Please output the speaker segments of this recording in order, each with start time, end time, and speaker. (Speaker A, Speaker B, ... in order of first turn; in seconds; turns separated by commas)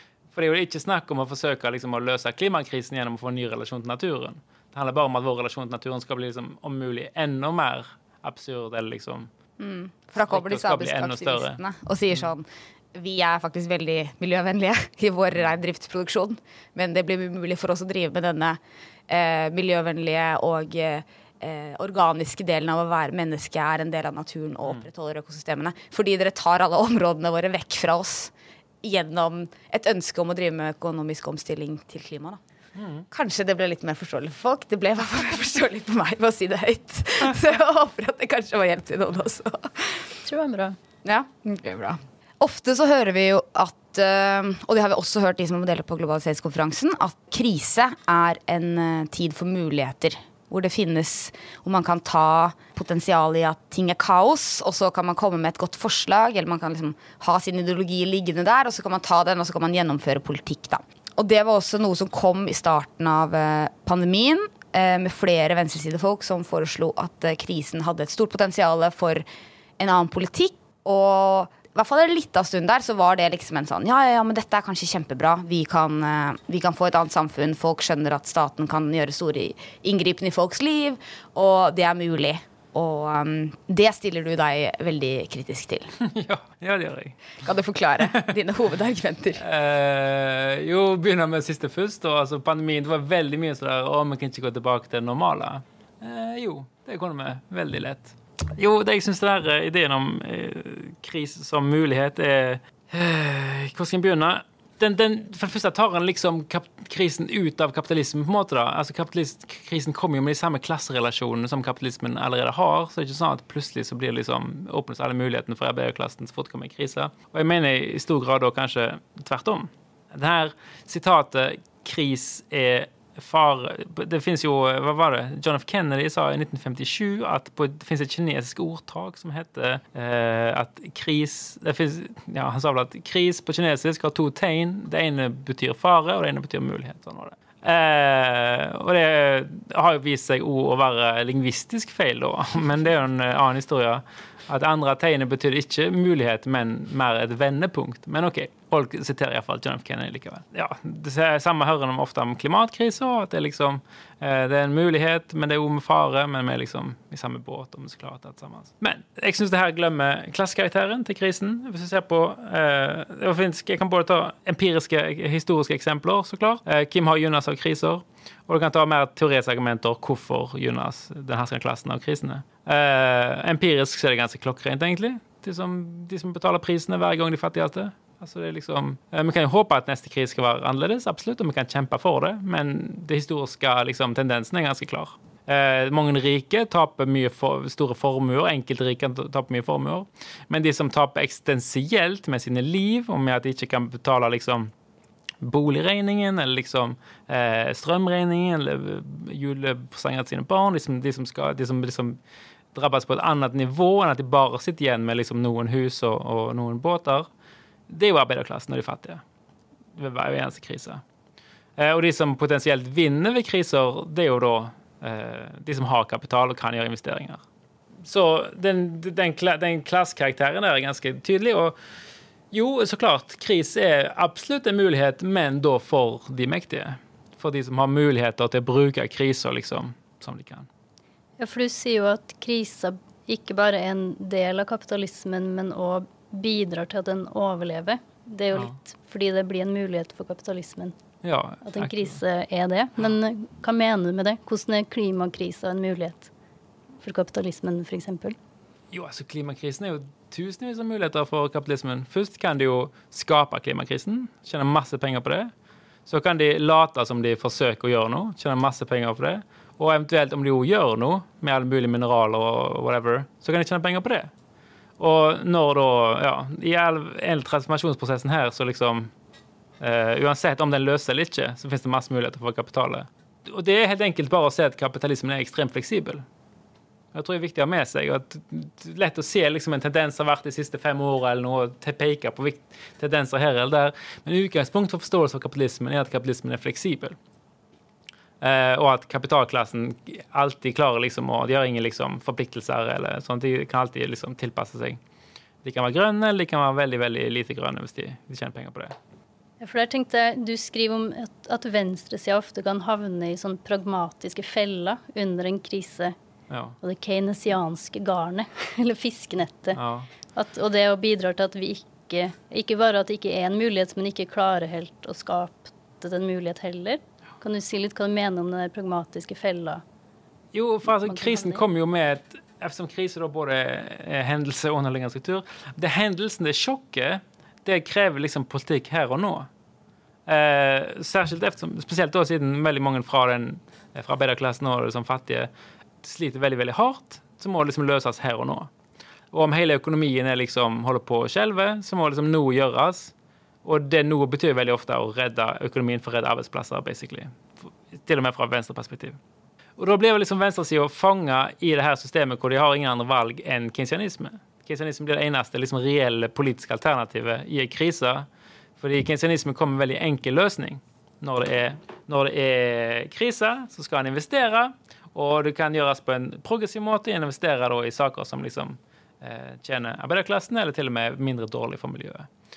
Speaker A: 0.3-9.3, Speaker B: 9.6-32.4, Speaker A: 10.2-11.6, Speaker A: 32.8-33.0, Speaker B: 33.1-40.1, Speaker C: 40.2-40.8, Speaker B: 41.0-69.2, Speaker B: 69.8-85.9, Speaker A: 86.0-87.3, Speaker B: 87.4-89.4, Speaker A: 89.4-194.7, Speaker A: 195.4-202.2, Speaker A: 202.7-207.3, Speaker A: 207.9-209.2, Speaker A: 210.0-211.0, Speaker A: 211.8-217.4, Speaker A: 218.0-221.7, Speaker A: 222.5-230.7, Speaker C: 231.4-240.9, Speaker A: 241.2-242.2, Speaker C: 241.6-246.3, Speaker C: 247.0-248.4, Speaker A: 248.9-255.5, Speaker A: 256.1-264.3, Speaker A: 265.0-269.1, Speaker A: 269.8-276.2, Speaker A: 277.1-287.1, Speaker A: 288.4-295.0, Speaker A: 295.6-298.9, Speaker C: 299.6-306.1, Speaker A: 306.5-306.8, Speaker C: 306.8-309.8, Speaker A: 309.7-310.1, Speaker C: 310.3-319.8, Speaker A: 320.5-329.5, Speaker C: 321.0-321.6, Speaker A: 330.3-335.5, Speaker A: 336.0-338.7, Speaker A: 339.3-343.1, Speaker A: 343.6-347.4, Speaker A: 347.9-349.2, Speaker A: 349.8-358.3, Speaker A: 358.8-372.3